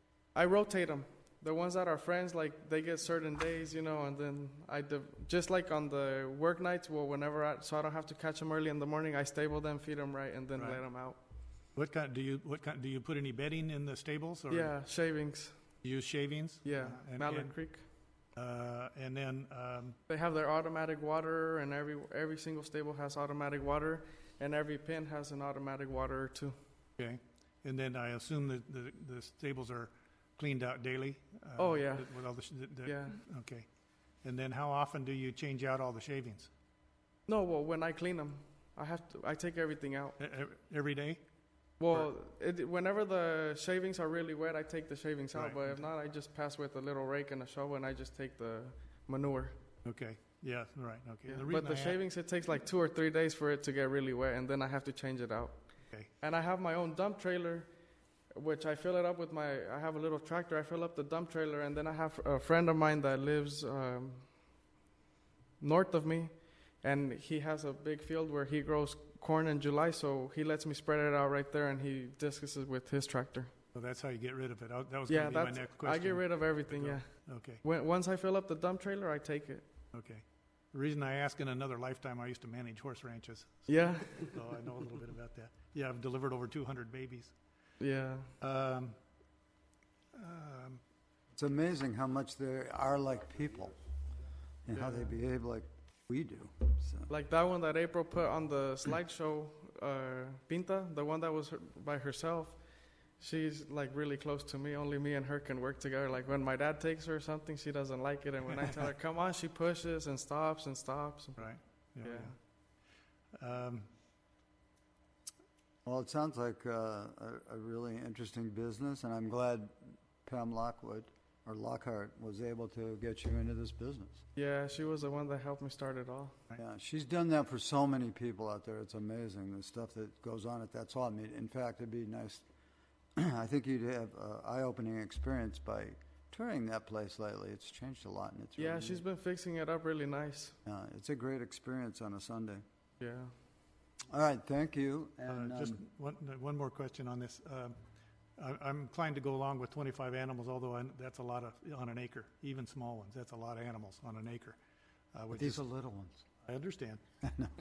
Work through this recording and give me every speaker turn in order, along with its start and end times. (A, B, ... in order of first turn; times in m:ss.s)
0:00.3-0:11.2 A
0:10.6-0:10.8 B
0:11.7-0:14.7 B
0:14.5-0:15.5 A
0:15.8-0:17.6 B
0:16.6-0:17.8 A
0:18.3-0:20.0 B
0:20.1-0:26.5 A
0:27.0-0:33.7 B
0:31.6-0:32.2 A
0:32.8-0:33.2 A
0:34.2-0:36.5 B
0:37.3-0:40.2 A
0:40.2-0:41.2 B
0:41.8-0:49.6 A
0:45.3-0:45.7 B
0:49.8-0:52.0 B
0:51.3-0:55.6 A
0:56.2-0:57.7 A
0:58.3-1:04.3 A
1:05.6-1:13.5 A
1:13.7-1:17.6 B
1:15.1-1:17.1 A
1:17.6-1:19.7 A
1:19.9-1:27.3 B
1:23.7-1:24.4 A
1:27.8-1:28.3 A
1:28.4-1:29.0 B
1:30.1-1:30.8 B
1:31.4-1:33.7 C
1:34.6-1:37.1 C
1:34.7-1:35.1 A
1:37.1-1:42.6 A
1:43.2-1:51.4 A
1:51.4-1:52.3 B
1:52.0-1:52.3 A
1:53.4-1:53.9 B
1:55.8-2:04.2 C
2:04.4-2:06.4 A
2:06.6-2:12.4 C
2:13.2-2:19.0 C
2:18.6-2:20.5 A
2:20.6-2:22.6 C
2:23.0-2:23.3 A
2:24.1-2:25.8 C
2:25.3-2:27.8 B
2:28.4-2:34.6 B
2:35.1-2:35.6 B
2:35.3-2:36.2 C
2:36.5-2:37.0 B
2:37.2-2:37.5 C